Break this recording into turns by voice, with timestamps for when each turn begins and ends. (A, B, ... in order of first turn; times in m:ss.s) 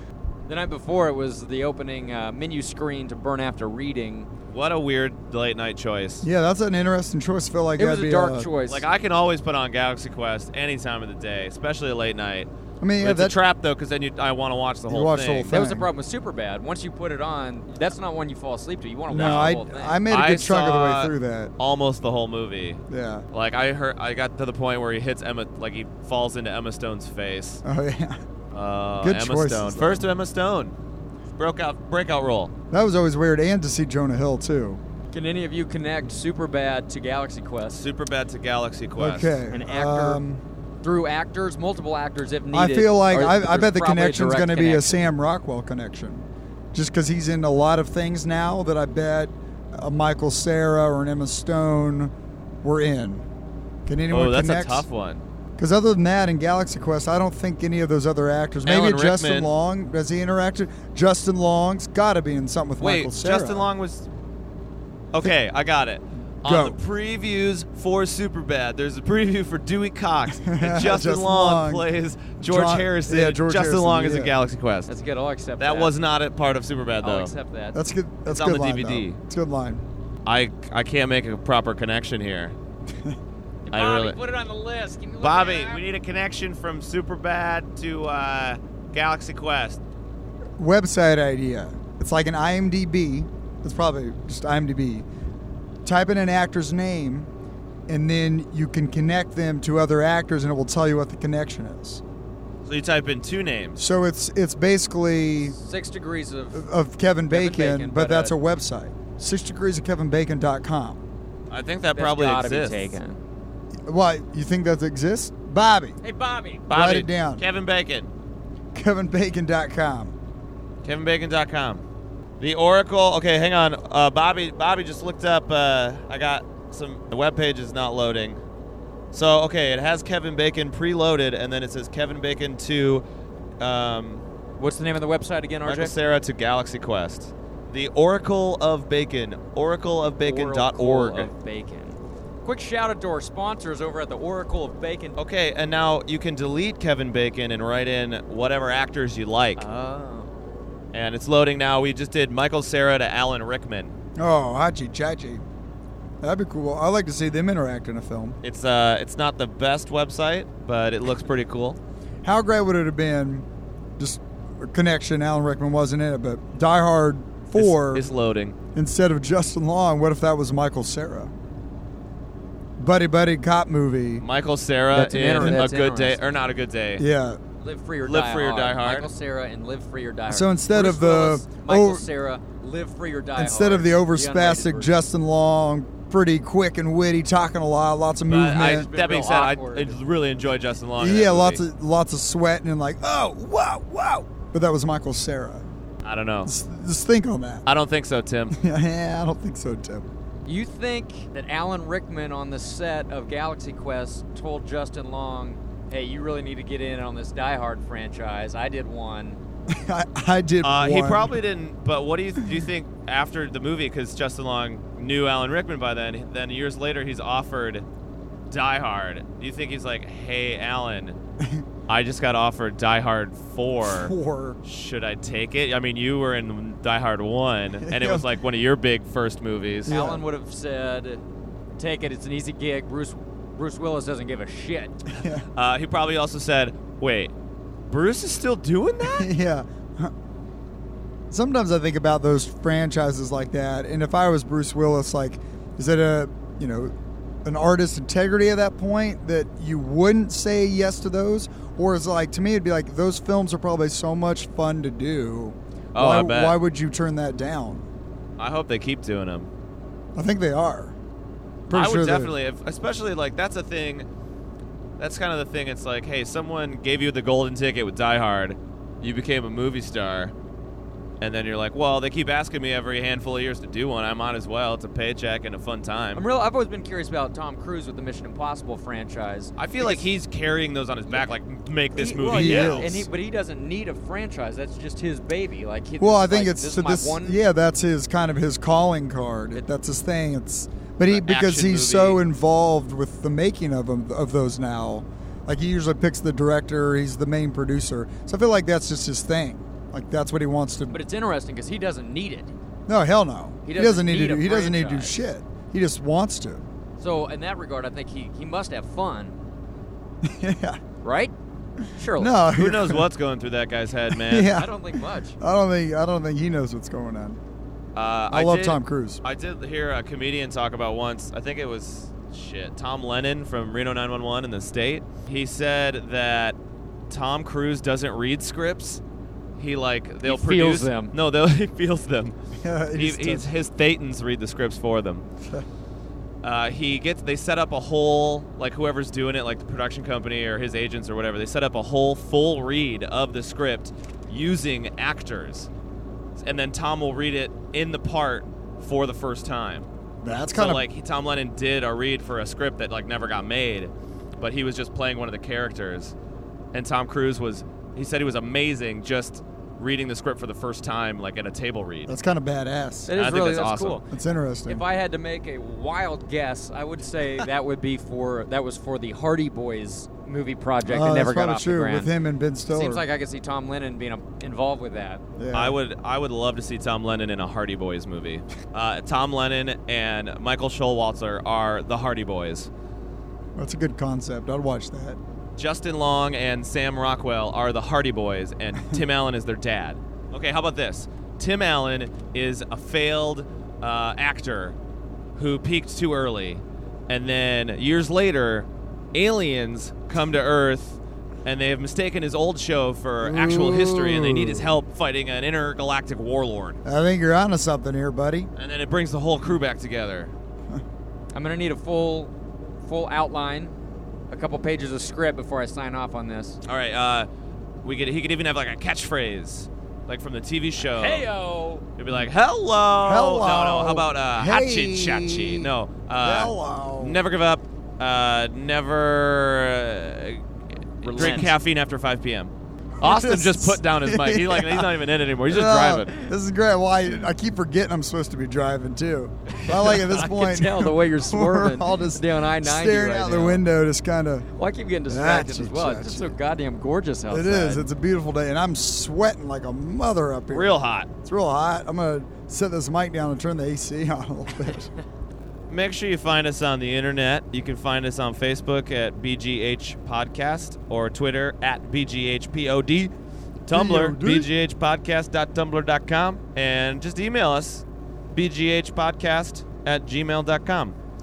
0:00.5-0:04.3 A
0:04.5-0:06.3 B
0:06.2-0:08.5 C
0:07.8-0:08.8 A
0:08.7-0:15.5 B
0:12.8-0:13.4 C
0:14.9-0:15.9 C
0:15.5-0:20.0 A
0:19.1-0:21.5 C
0:20.1-0:22.8 B
0:22.9-0:23.2 C
0:23.3-0:27.6 B
0:27.6-0:28.2 C
0:28.5-0:30.7 B
0:29.0-0:30.1 C
0:31.4-0:32.5 B
0:32.7-0:34.8 C
0:35.1-0:37.8 A
0:37.8-0:39.4 B
0:39.0-0:40.4 C
0:39.5-0:40.2 A
0:40.8-0:45.0 A
0:42.5-0:52.1 C
0:52.6-0:53.3 C
0:53.9-0:54.9 C
0:54.1-0:55.2 B
0:55.6-1:03.7 C
0:58.6-0:59.5 B
1:02.8-1:04.1 B
1:05.1-1:14.9 B
1:06.4-1:06.8 C
1:10.3-1:11.9 C
1:12.4-1:14.3 C
1:14.9-1:15.9 A
1:15.6-1:17.3 B
1:17.0-1:17.8 A
1:17.7-1:19.8 C
1:18.3-1:19.2 B
1:20.2-1:22.6 B
1:23.7-1:25.8 A
1:23.7-1:24.2 B
1:25.2-1:29.8 B
1:30.6-1:35.1 C
1:35.8-1:37.3 C
1:37.9-1:42.0 C
1:42.6-1:43.8 B
1:43.8-1:45.6 C
1:45.5-1:46.6 A
1:46.5-1:51.0 C
1:47.3-1:48.3 A
1:51.5-1:53.0 B
1:52.0-1:53.2 A
1:53.9-1:56.0 C
1:56.0-1:56.7 A
1:56.7-1:58.1 B
1:56.7-1:57.4 C
1:58.7-2:00.1 C
2:00.8-2:01.8 B
2:02.4-2:08.4 B
2:09.1-2:13.0 B
2:13.6-2:14.2 B
2:14.6-2:16.0 A
2:15.6-2:21.3 B
2:20.2-2:25.2 A
2:25.2-2:29.6 B
2:29.6-2:30.5 A
2:30.9-2:33.9 B
2:34.2-2:35.4 C
2:36.2-2:38.4 C
2:38.4-2:41.8 B
2:42.2-2:43.5 C
2:44.0-2:48.1 C
2:47.6-2:48.6 B
2:48.8-2:51.3 C
2:52.8-2:54.2 C
2:54.2-2:57.0 B
2:54.9-2:56.2 A
2:55.4-2:55.6 C
2:57.0-2:57.4 C
2:57.6-3:04.9 A
2:58.0-2:59.1 B
3:00.3-3:02.1 C
3:03.4-3:08.9 C
3:08.3-3:11.6 B
3:08.6-3:10.0 A
3:11.0-3:15.7 C
3:16.0-3:16.5 B
3:16.4-3:17.6 C
3:17.7-3:18.6 B
3:18.5-3:20.1 C
3:20.5-3:29.4 A
3:29.7-3:31.4 C
3:30.6-3:37.8 B
3:38.5-3:41.2 B
3:41.9-3:44.1 B
3:43.8-3:44.6 C
3:44.6-3:50.0 B
3:47.8-3:48.3 C
3:49.9-3:51.2 A
3:49.9-3:50.2 C
3:51.8-3:55.2 A
3:55.1-3:55.4 C
3:55.6-3:57.3 B
3:57.9-3:59.3 B
3:59.1-4:00.1 C
4:01.3-4:06.9 C
4:07.4-4:17.9 C
4:16.0-4:16.6 B
4:18.4-4:19.5 B
4:20.2-4:21.0 C
4:21.7-4:22.3 C
4:21.7-4:24.1 B
4:25.0-4:30.3 B
4:31.2-4:36.2 B
4:36.2-4:40.0 A
4:39.6-4:43.0 B
4:42.0-4:47.4 A
4:42.2-4:43.0 C
4:46.0-5:01.0 C
4:51.1-4:52.2 B
5:00.9-5:02.5 A
5:02.9-5:06.6 C
5:03.6-5:05.2 A
5:07.0-5:09.4 A
5:10.2-5:10.8 C
5:11.0-5:11.3 A
5:11.9-5:12.4 A
5:12.2-5:13.1 C
5:12.5-5:14.7 B
5:14.1-5:14.8 C
5:14.5-5:15.4 A
5:15.4-5:17.4 C
5:18.0-5:26.6 B
5:18.3-5:19.2 C
5:27.1-5:29.0 B
5:29.6-5:32.4 B
5:30.3-5:31.1 A
5:32.6-5:33.5 C
5:33.0-5:35.2 B
5:36.4-5:45.7 B
5:46.4-5:49.9 B
5:50.2-5:50.9 C
5:50.5-5:56.2 B
5:56.7-6:02.2 B
6:02.1-6:03.1 C
6:03.1-6:04.1 A
6:03.1-6:04.0 B
6:04.1-6:04.8 C
6:04.7-6:12.1 A
6:10.9-6:13.0 C
6:12.7-6:15.2 A
6:15.4-6:15.8 C
6:15.5-6:22.7 B
6:23.6-6:25.2 C
6:25.6-6:34.8 B
6:35.4-6:46.8 B
6:43.2-6:44.7 C
6:46.8-6:48.5 C
6:48.6-6:50.3 B
6:51.3-6:53.7 A
6:54.3-6:56.6 A
6:56.6-6:57.3 B
6:57.8-7:01.3 B
7:00.8-7:01.8 A
7:02.0-7:10.4 B
7:03.0-7:05.7 C
7:06.2-7:07.2 C
7:11.0-7:16.1 B
7:11.0-7:11.5 A
7:13.0-7:14.9 C
7:15.4-7:24.5 C
7:19.8-7:23.6 A
7:24.6-7:27.9 A
7:25.1-7:26.4 C
7:27.3-7:34.9 C
7:30.5-7:31.1 B
7:35.7-7:43.1 B
7:43.7-7:51.0 B
7:43.7-7:44.5 C